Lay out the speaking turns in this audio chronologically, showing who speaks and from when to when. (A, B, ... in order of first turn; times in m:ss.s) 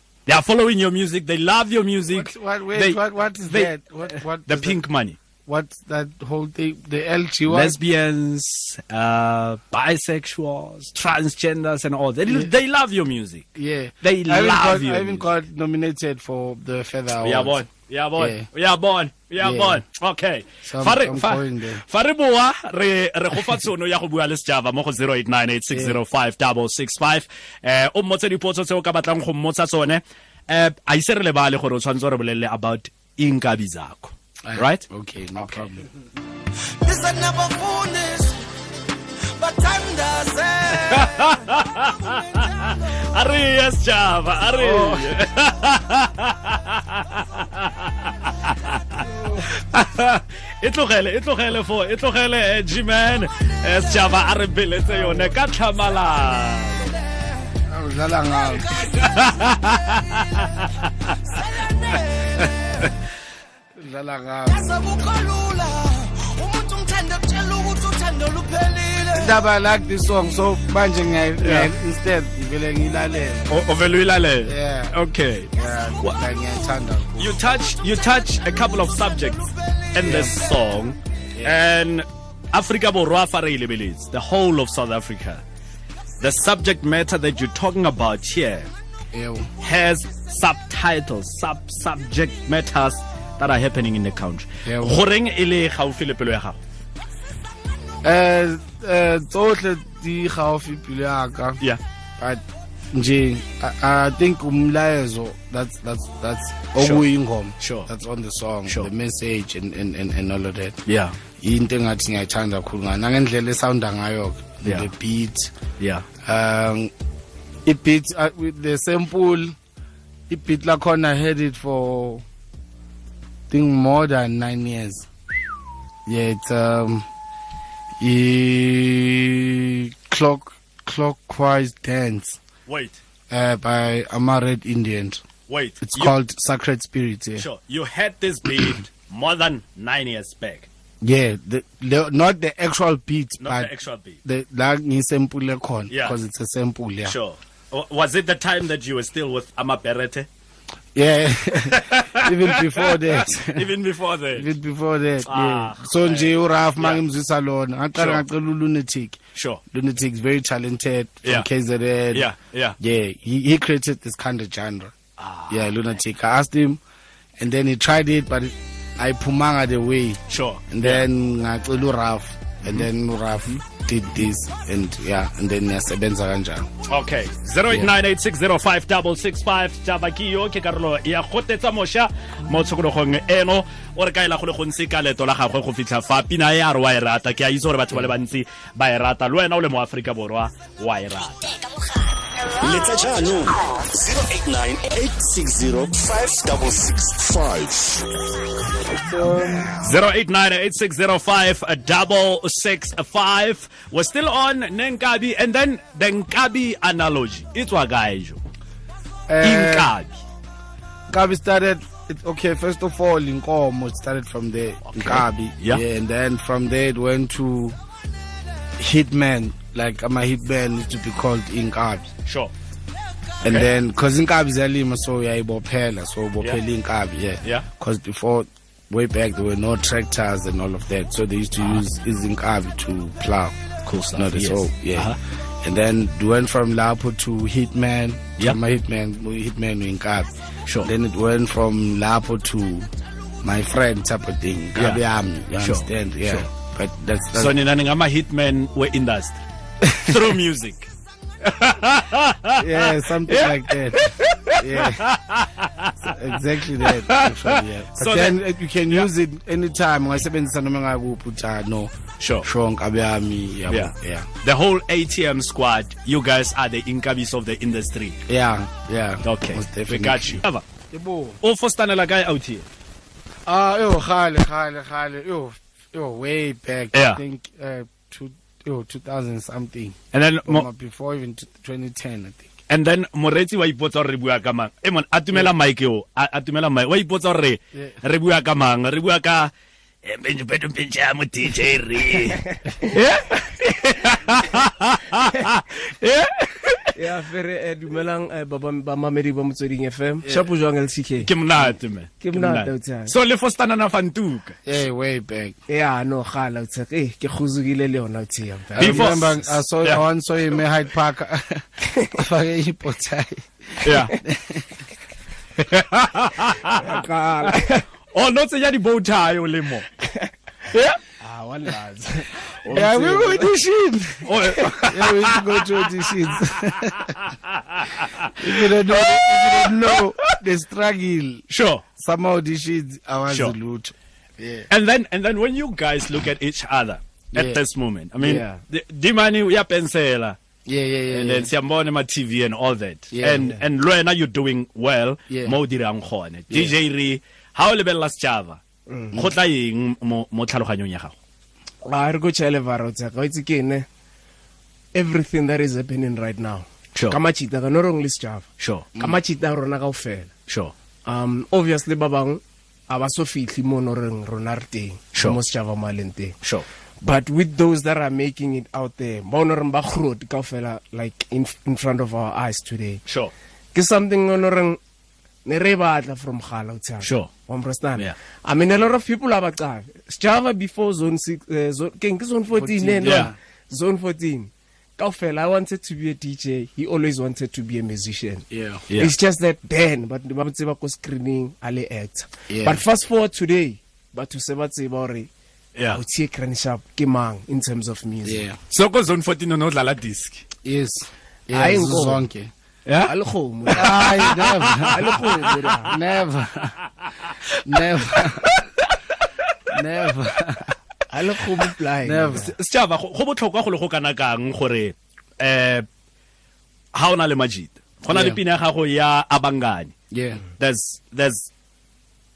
0:00.3-0:03.7 A
0:02.1-0:04.8 B
0:04.4-0:05.2 A
0:05.5-0:07.8 B
0:07.5-0:13.5 A
0:13.6-0:17.6 B
0:14.0-0:15.2 A
0:17.2-0:34.8 A
0:18.2-0:18.5 B
0:19.4-0:19.8 B
0:20.6-0:21.8 B
0:25.7-0:26.0 B
0:34.4-0:35.8 B
0:35.4-0:35.6 A
0:36.8-0:38.4 C
0:39.4-0:41.3 C
0:40.9-0:57.0 A
0:44.6-0:45.1 B
0:49.1-0:49.4 B
0:57.7-0:58.8 B
0:59.0-1:00.4 A
1:01.3-1:02.9 C
1:03.8-1:04.6 B
1:04.5-1:09.4 C
1:09.1-1:13.6 B
1:11.4-1:11.7 A
1:13.5-1:15.5 A
1:14.4-1:15.0 B
1:15.5-1:17.4 B
1:17.2-1:25.4 A
1:20.0-1:20.4 B
1:26.2-1:28.7 A
1:29.1-1:29.5 B
1:29.6-1:36.6 A
1:34.6-1:35.0 B
1:38.0-1:41.6 B
1:42.2-1:50.8 B
1:46.8-1:47.0 A
1:47.6-1:47.9 A
1:50.9-1:51.2 A
1:51.4-1:55.5 B
1:54.6-1:54.9 A
1:55.8-1:56.1 A
1:56.2-1:56.9 B
1:57.6-1:59.6 B
2:00.3-2:02.2 B
2:03.5-2:05.1 B
2:06.1-2:07.1 B
2:08.0-2:12.4 B
2:12.7-2:13.0 A
2:13.3-2:15.2 B
2:15.5-2:16.1 A
2:15.8-2:17.5 B
2:17.4-2:20.7 A
2:21.0-2:23.7 B
2:23.4-2:24.2 A
2:24.2-2:27.2 B
2:25.9-2:26.2 A
2:27.0-2:30.3 A
2:31.0-2:33.7 B
2:31.6-2:34.5 A
2:34.3-2:39.2 B
2:35.3-2:37.0 A
2:38.0-2:38.2 A
2:39.4-2:39.6 A
2:39.7-2:45.0 B
2:42.1-2:42.8 A
2:45.2-2:45.8 A
2:45.5-2:46.8 B
2:47.4-2:56.7 B
2:50.3-2:51.1 A
2:52.6-2:52.9 A
2:56.9-3:11.5 A
3:12.6-3:18.1 D
3:18.9-3:19.9 B
3:19.8-3:28.4 A
3:29.3-3:29.9 B
3:29.4-3:30.2 A
3:31.1-3:37.8 B
3:34.9-3:35.8 A
3:38.8-3:42.1 B
3:42.3-3:42.5 A
3:43.4-3:53.6 B
3:53.9-3:55.2 A
3:54.1-4:02.9 B
4:03.4-4:07.6 B
4:04.8-4:05.0 A
4:05.6-4:06.5 A
4:07.4-4:09.4 A
4:09.8-4:10.2 B
4:10.0-4:10.9 A
4:11.4-4:16.2 A
4:12.6-4:15.1 B
4:16.0-4:24.3 B
4:16.8-4:18.4 A
4:22.2-4:22.5 A
4:23.7-4:28.2 A
4:28.3-4:31.4 B
4:29.2-4:30.6 A
4:31.4-4:32.6 A
4:33.5-4:42.5 B
4:36.9-4:37.2 A
4:40.1-4:40.7 A
4:42.7-4:49.5 A
4:50.0-4:56.9 A
4:57.0-5:01.3 E
5:01.2-5:04.6 A
5:02.2-5:03.1 E
5:04.7-5:05.6 B
5:05.7-5:09.2 E
5:08.8-5:14.8 B
5:08.8-5:10.0 A
5:13.8-5:14.2 A
5:15.7-5:16.8 A
5:16.8-5:17.8 E
5:18.1-5:19.9 A
5:20.7-5:21.0 A
5:21.2-5:23.5 E
5:22.7-5:27.2 B
5:24.2-5:25.9 A
5:26.8-5:28.5 A
5:28.4-5:31.4 B
5:29.0-5:29.8 A
5:31.5-5:31.8 A
5:32.0-5:34.7 B
5:33.3-5:33.6 A
5:34.7-5:40.4 A
5:37.3-5:37.6 B
5:38.2-5:38.6 E
5:40.7-5:41.5 B
5:41.1-5:48.6 A
5:43.1-5:43.5 B
5:45.3-5:45.6 B
5:46.5-5:46.8 B
5:48.9-5:49.2 E
5:49.1-5:51.2 A
5:51.8-5:53.9 E
5:54.9-6:00.3 E
5:58.6-5:58.9 A
6:00.5-6:00.7 A
6:01.1-6:06.4 E
6:07.0-6:13.0 E
6:13.1-6:13.3 A
6:13.7-6:14.8 E
6:15.4-6:35.3 E
6:17.0-6:17.3 A
6:22.5-6:23.4 B
6:23.0-6:23.3 A
6:28.5-6:28.8 B
6:32.5-6:32.8 B
6:35.8-6:36.0 A
6:35.9-6:38.4 E
6:38.2-6:38.6 B
6:38.7-6:40.4 A
6:40.6-6:42.5 B
6:41.5-6:42.2 E
6:42.9-6:43.1 A
6:43.1-6:46.0 E
6:43.7-6:45.6 A
6:43.7-6:45.1 B
6:45.9-6:46.8 B
6:47.6-6:48.6 B
6:49.7-6:50.8 B
6:51.1-6:52.5 E
6:52.0-6:52.5 B
6:52.4-6:55.9 A
6:56.9-7:00.0 A
6:58.1-6:58.4 B
7:00.1-7:00.4 B
7:00.6-7:01.5 A